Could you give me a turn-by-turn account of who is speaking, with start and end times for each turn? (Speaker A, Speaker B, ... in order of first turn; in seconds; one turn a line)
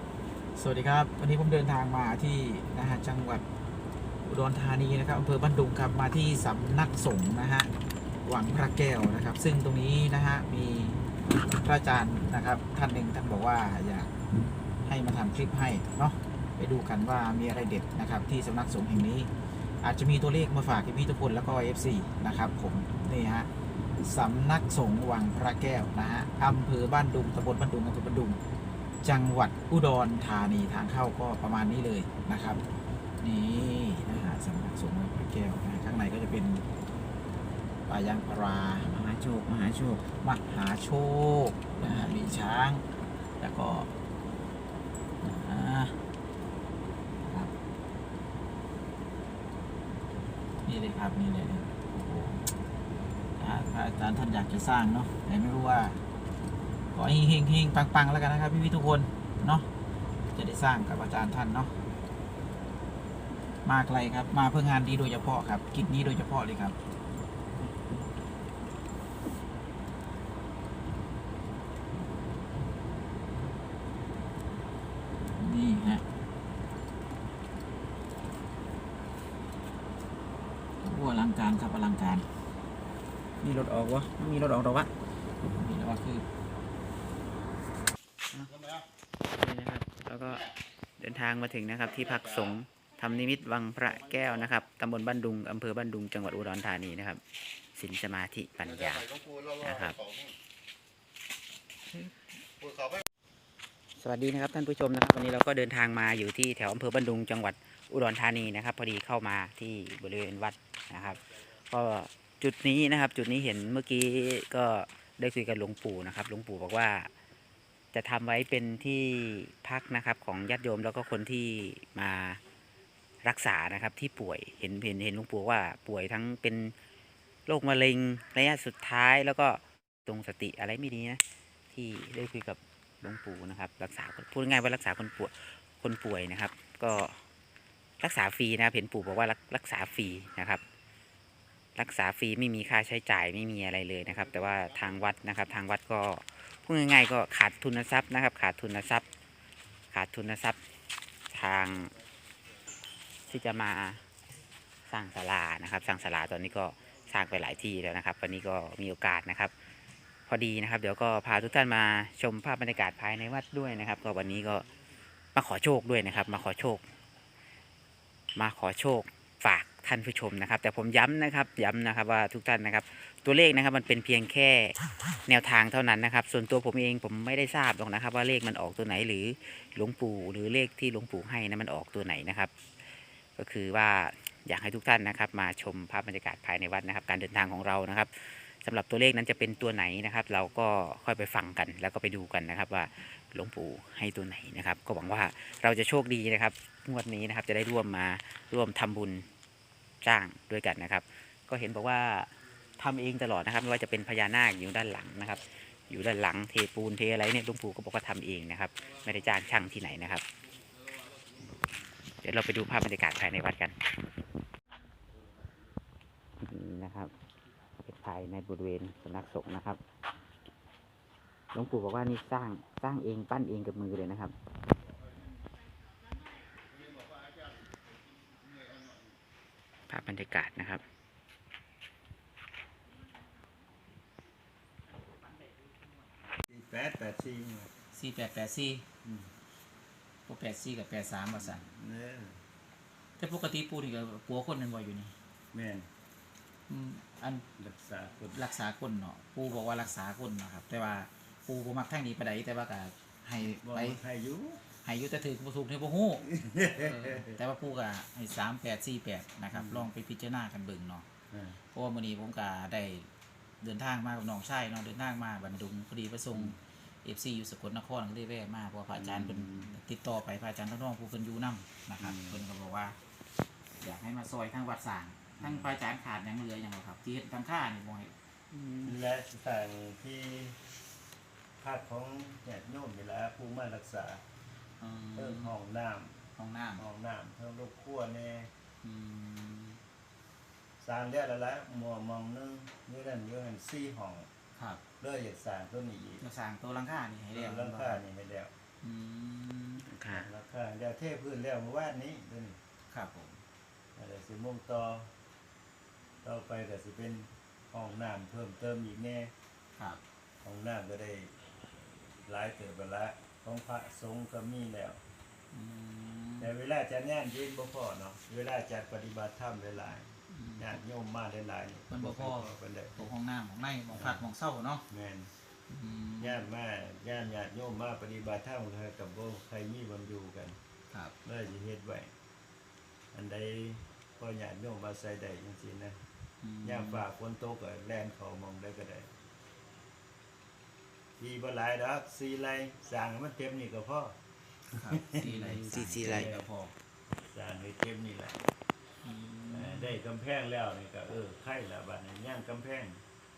Speaker A: 0.5-3.4
Speaker A: 4.2-7.7
Speaker A: 8.2-14.1
Speaker A: 14.9-19.3
Speaker A: 19.8-23.5
Speaker A: 24.0-28.4
Speaker A: 29.0-32.6
Speaker A: 33.2-36.6
Speaker A: 37.9-42.9
Speaker A: 43.4-43.9
Speaker A: 45.2-46.0
Speaker A: 47.2-47.5
Speaker A: 50.7-52.6
Speaker A: 53.4-56.0
Speaker A: 56.9-59.7
Speaker A: 60.3-61.7
Speaker A: 63.6-66.8
Speaker A: 75.3-76.0
Speaker A: 80.8-82.2
Speaker A: 83.4-84.9
Speaker A: 85.4-86.2
Speaker B: 89.3-90.5
Speaker B: 91.0-97.2
Speaker B: 97.8-100.0
Speaker B: 101.9-102.2
Speaker B: 104.0-117.1
Speaker B: 117.9-122.4
Speaker B: 123.2-126.7
Speaker B: 127.5-137.2
Speaker B: 138.0-140.6
Speaker B: 141.8-149.1
Speaker B: 149.9-150.6
Speaker B: 151.3-151.9
Speaker B: 153.3-154.0
Speaker B: 154.9-159.5
Speaker B: 160.3-164.7
Speaker B: 165.3-166.8
Speaker B: 168.4-174.8
Speaker B: 175.2-182.5
Speaker B: 183.4-199.3
Speaker B: 200.0-210.2
Speaker B: 212.2-213.8
Speaker B: 216.4-217.1
Speaker B: 217.8-219.8
Speaker B: 221.5-224.3
Speaker B: 229.9-230.8
Speaker C: 236.4-237.7
Speaker A: 237.9-238.8
Speaker C: 239.1-239.3
Speaker A: 240.3-241.6
Speaker C: 241.4-242.4
Speaker A: 243.2-245.1
Speaker C: 245.5-245.9
Speaker A: 246.7-247.4
Speaker C: 247.6-248.4
Speaker A: 248.3-254.0
Speaker C: 253.6-254.6
Speaker A: 254.8-261.1
Speaker C: 256.3-257.4
Speaker C: 259.5-259.9
Speaker C: 261.3-261.6
Speaker A: 261.7-263.1
Speaker A: 263.6-273.0
Speaker C: 268.9-269.8
Speaker C: 272.0-272.4
Speaker A: 273.8-278.1
Speaker C: 275.4-275.7
Speaker B: 278.5-278.9
Speaker C: 278.8-280.6
Speaker C: 281.6-284.2
Speaker A: 284.8-285.5
Speaker C: 285.1-286.2
Speaker A: 286.4-286.8
Speaker C: 286.8-288.5
Speaker A: 288.8-289.8
Speaker C: 290.8-294.3
Speaker C: 295.0-296.2
Speaker A: 296.2-298.0
Speaker C: 297.3-298.5
Speaker A: 298.8-299.9
Speaker B: 299.9-300.3
Speaker C: 300.1-302.6
Speaker A: 302.9-303.4
Speaker C: 304.0-305.1
Speaker C: 306.2-309.3
Speaker C: 310.4-311.3
Speaker C: 312.2-315.0
Speaker A: 315.5-316.5
Speaker C: 316.4-323.1
Speaker A: 320.3-320.8
Speaker A: 321.9-324.8
Speaker C: 323.9-324.2
Speaker C: 324.9-325.3
Speaker A: 325.7-326.4
Speaker C: 326.2-330.6
Speaker C: 331.2-332.1
Speaker C: 333.1-336.0
Speaker A: 336.4-337.0
Speaker C: 336.6-339.1
Speaker C: 341.2-344.1
Speaker A: 344.7-346.7
Speaker C: 344.9-346.4
Speaker B: 345.7-346.3
Speaker C: 347.3-348.4
Speaker A: 349.0-349.9
Speaker C: 349.5-353.0